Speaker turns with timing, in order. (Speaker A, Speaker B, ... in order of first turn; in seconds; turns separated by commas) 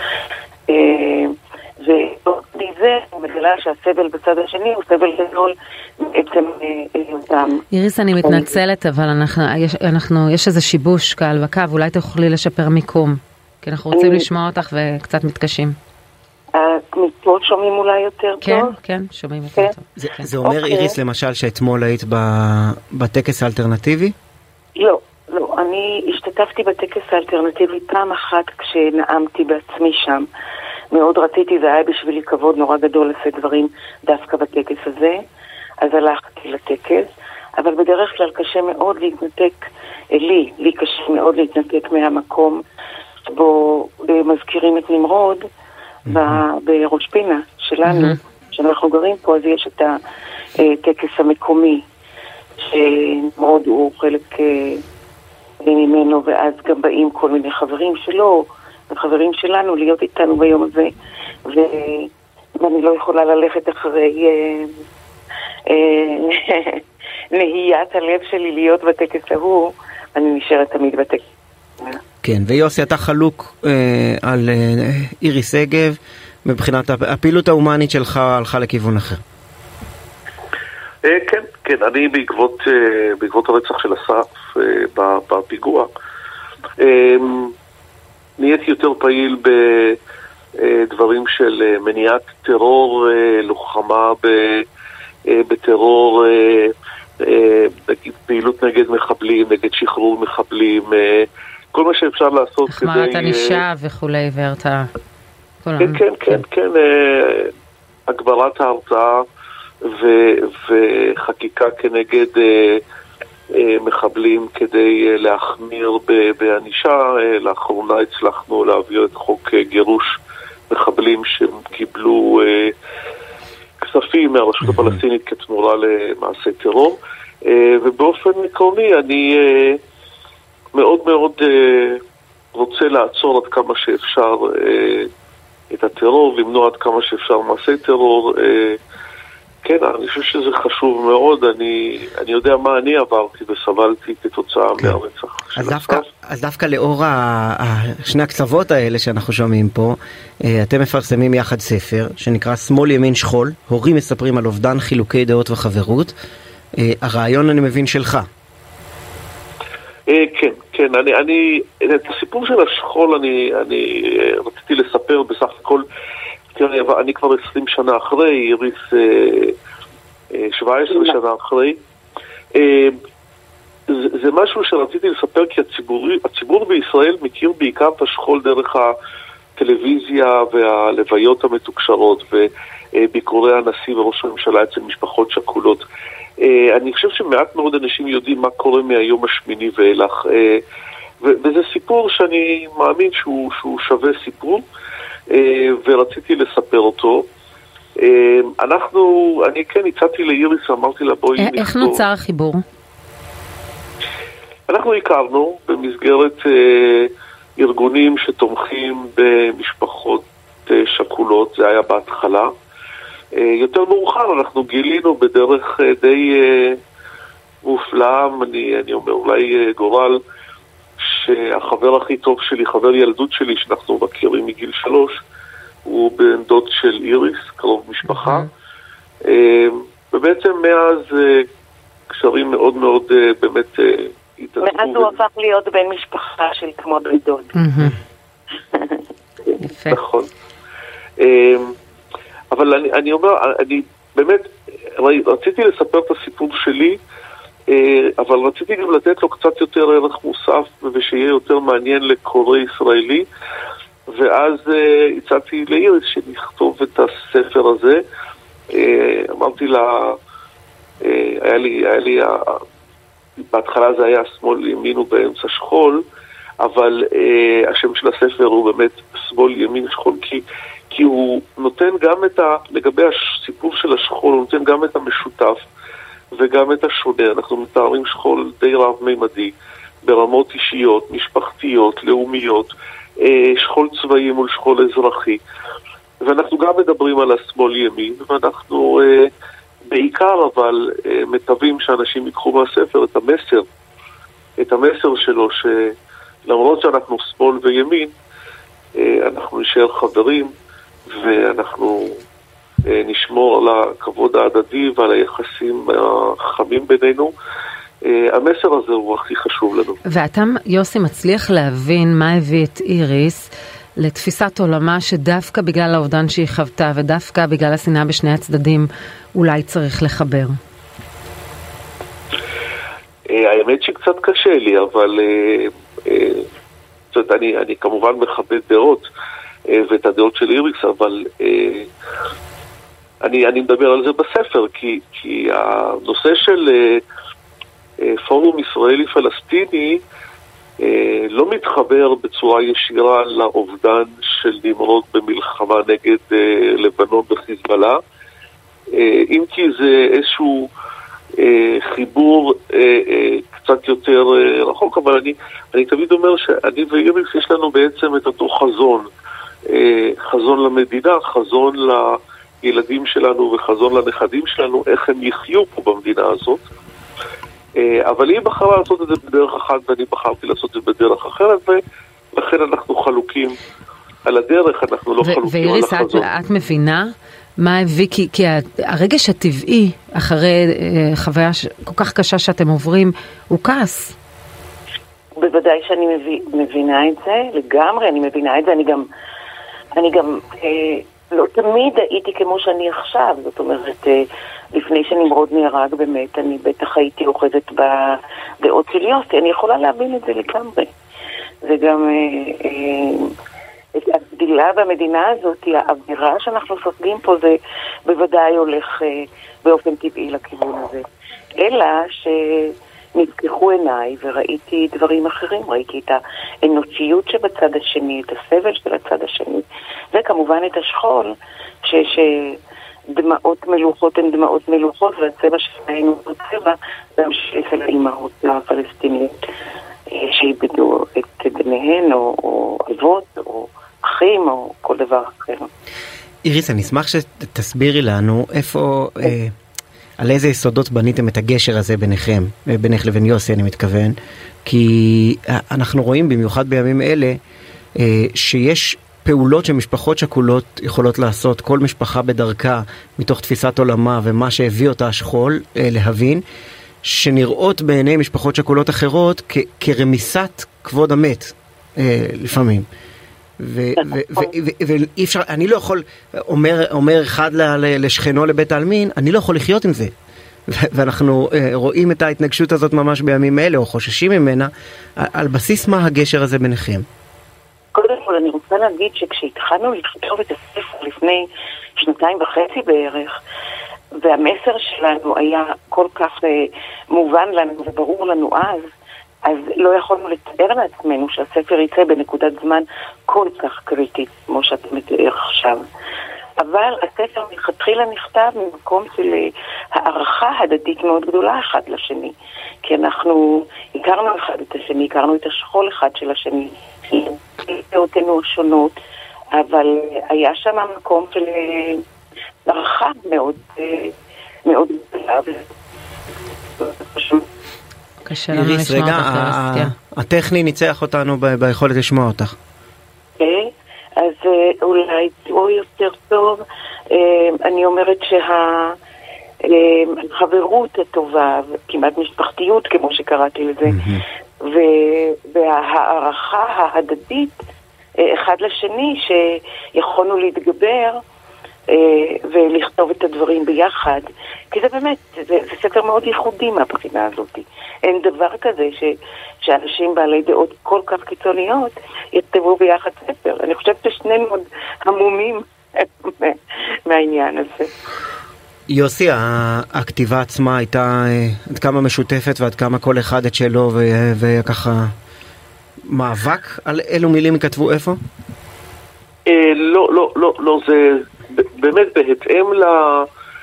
Speaker A: 0.7-7.6, Speaker B: 7.7-15.8, Speaker A: 8.2-8.5, Speaker A: 13.9-14.3, Speaker A: 16.5-18.7, Speaker B: 18.4-19.9, Speaker C: 20.0-24.1, Speaker A: 20.4-21.0, Speaker A: 24.8-30.3, Speaker A: 30.9-35.2, Speaker A: 35.8-42.6, Speaker A: 43.3-45.4, Speaker C: 46.1-46.4, Speaker A: 46.1-50.0, Speaker B: 47.9-48.1, Speaker A: 50.6-51.8, Speaker A: 52.6-54.8, Speaker A: 55.6-60.9, Speaker A: 61.5-62.1, Speaker A: 62.6-64.7, Speaker A: 65.7-66.8, Speaker A: 67.3-71.2, Speaker C: 72.2-79.2, Speaker D: 81.0-85.9, Speaker D: 86.8-87.5, Speaker D: 88.4-90.0, Speaker D: 90.6-94.6, Speaker D: 95.3-103.6, Speaker B: 102.7-104.9, Speaker B: 105.7-106.4, Speaker D: 105.8-107.5, Speaker D: 108.1-109.2, Speaker D: 109.8-112.8, Speaker D: 113.5-120.2, Speaker D: 120.7-122.7, Speaker D: 123.8-129.8, Speaker D: 130.7-132.0, Speaker D: 132.5-135.1, Speaker D: 135.7-138.8, Speaker D: 139.6-146.1, Speaker C: 145.6-156.1, Speaker C: 156.8-158.3, Speaker D: 160.1-165.8, Speaker D: 166.6-169.5, Speaker D: 170.3-171.8, Speaker D: 172.6-173.0, Speaker D: 173.9-178.9, Speaker D: 179.6-185.8, Speaker D: 186.4-190.6, Speaker D: 191.2-194.6, Speaker D: 195.3-197.3, Speaker D: 198.0-202.0, Speaker B: 201.4-202.6, Speaker D: 204.7-212.5, Speaker D: 213.3-216.8, Speaker D: 217.6-220.2, Speaker D: 221.0-225.1, Speaker D: 225.9-228.5, Speaker B: 228.1-228.5, Speaker D: 229.2-231.5, Speaker D: 232.1-235.2, Speaker A: 234.6-237.5, Speaker B: 237.6-238.0, Speaker A: 238.7-239.0, Speaker B: 239.6-240.0, Speaker D: 239.9-240.3, Speaker D: 241.2-241.7, Speaker D: 242.5-244.5, Speaker D: 245.0-247.0, Speaker D: 247.7-253.2, Speaker D: 254.1-258.0, Speaker D: 258.7-260.2, Speaker D: 261.0-262.6, Speaker D: 263.5-266.0, Speaker D: 266.6-275.6, Speaker D: 276.4-279.5, Speaker D: 280.0-285.4, Speaker D: 286.2-289.3, Speaker D: 289.9-293.6, Speaker D: 294.6-295.9, Speaker D: 296.5-298.1, Speaker D: 299.0-300.5, Speaker D: 301.1-302.2, Speaker D: 302.9-307.3, Speaker D: 308.0-310.0, Speaker B: 310.1-320.6, Speaker D: 323.3-326.5, Speaker D: 327.1-329.1, Speaker D: 329.7-331.9, Speaker D: 333.2-337.0, Speaker D: 338.0-340.0, Speaker D: 340.8-348.0, Speaker D: 348.9-350.7, Speaker D: 351.4-359.1, Speaker D: 359.7-366.6, Speaker D: 367.8-371.8, Speaker D: 372.3-373.6, Speaker D: 374.3-376.3, Speaker B: 375.2-384.1, Speaker A: 385.4-389.1, Speaker A: 389.9-400.9, Speaker A: 401.6-403.3, Speaker A: 403.9-407.6, Speaker A: 408.1-411.0, Speaker A: 411.6-422.6, Speaker A: 423.1-429.4, Speaker A: 430.1-435.7, Speaker C: 436.5-439.5, Speaker C: 440.2-447.4, Speaker C: 448.0-456.4, Speaker C: 457.0-462.9, Speaker C: 463.6-470.1, Speaker C: 470.7-477.1, Speaker A: 477.9-483.3, Speaker A: 484.2-488.8, Speaker A: 489.4-495.8, Speaker A: 496.6-509.0, Speaker A: 509.5-512.0, Speaker A: 512.6-514.1, Speaker A: 514.6-515.6, Speaker A: 516.8-517.5, Speaker B: 518.2-519.9, Speaker C: 518.5-522.5, Speaker A: 523.4-529.0, Speaker A: 529.6-534.0, Speaker C: 533.9-534.2, Speaker A: 534.6-537.6, Speaker A: 538.2-541.2, Speaker A: 541.9-557.9, Speaker C: 558.9-565.1, Speaker C: 566.1-568.2, Speaker D: 569.5-573.3